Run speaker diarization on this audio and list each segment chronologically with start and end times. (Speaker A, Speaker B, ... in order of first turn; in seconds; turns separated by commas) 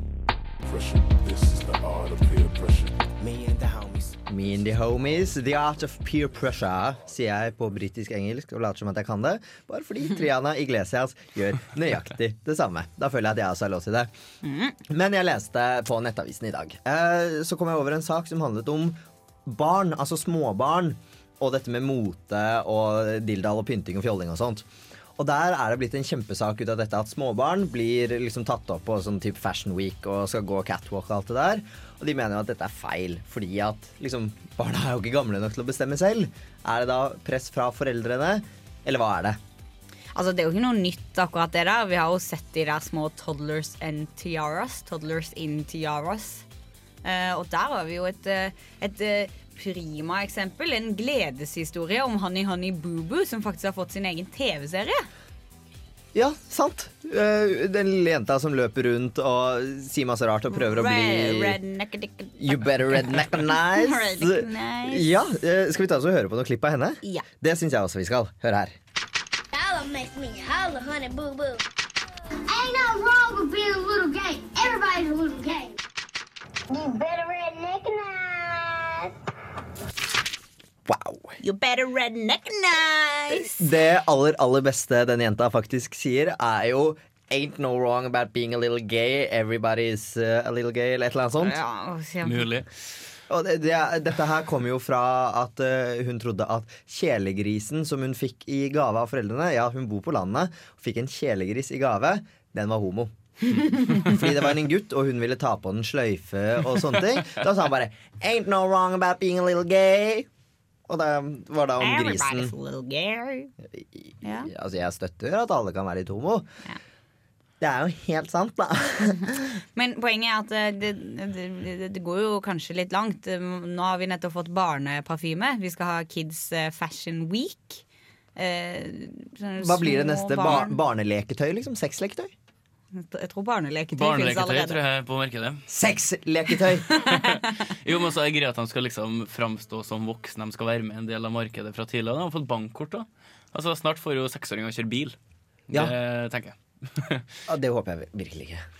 Speaker A: 0.6-5.0, Speaker B: 4.3-14.1, Speaker C: 14.4-14.8, Speaker B: 14.9-24.7, Speaker B: 25.2-39.4, Speaker C: 40.1-46.5, Speaker C: 47.0-55.1, Speaker B: 56.1-61.6, Speaker C: 60.5-65.1, Speaker B: 62.4-68.8, Speaker D: 69.5-71.6, Speaker D: 72.5-75.8, Speaker D: 76.7-79.1, Speaker B: 80.9-81.3, Speaker C: 81.4-83.7, Speaker B: 83.3-91.6, Speaker C: 91.4-92.5, Speaker E: 92.2-92.7, Speaker B: 93.3-103.1, Speaker B: 103.7-110.3, Speaker B: 110.9-112.5, Speaker C: 111.8-113.5, Speaker B: 113.7-116.5, Speaker C: 114.2-114.5, Speaker B: 117.6-119.5, Speaker C: 119.8-127.8, Speaker C: 128.4-130.8, Speaker B: 129.6-132.3, Speaker C: 132.9-134.8, Speaker E: 133.9-135.7, Speaker B: 135.7-136.9, Speaker C: 136.9-137.6, Speaker E: 137.0-145.2, Speaker E: 145.7-147.3, Speaker B: 147.5-148.6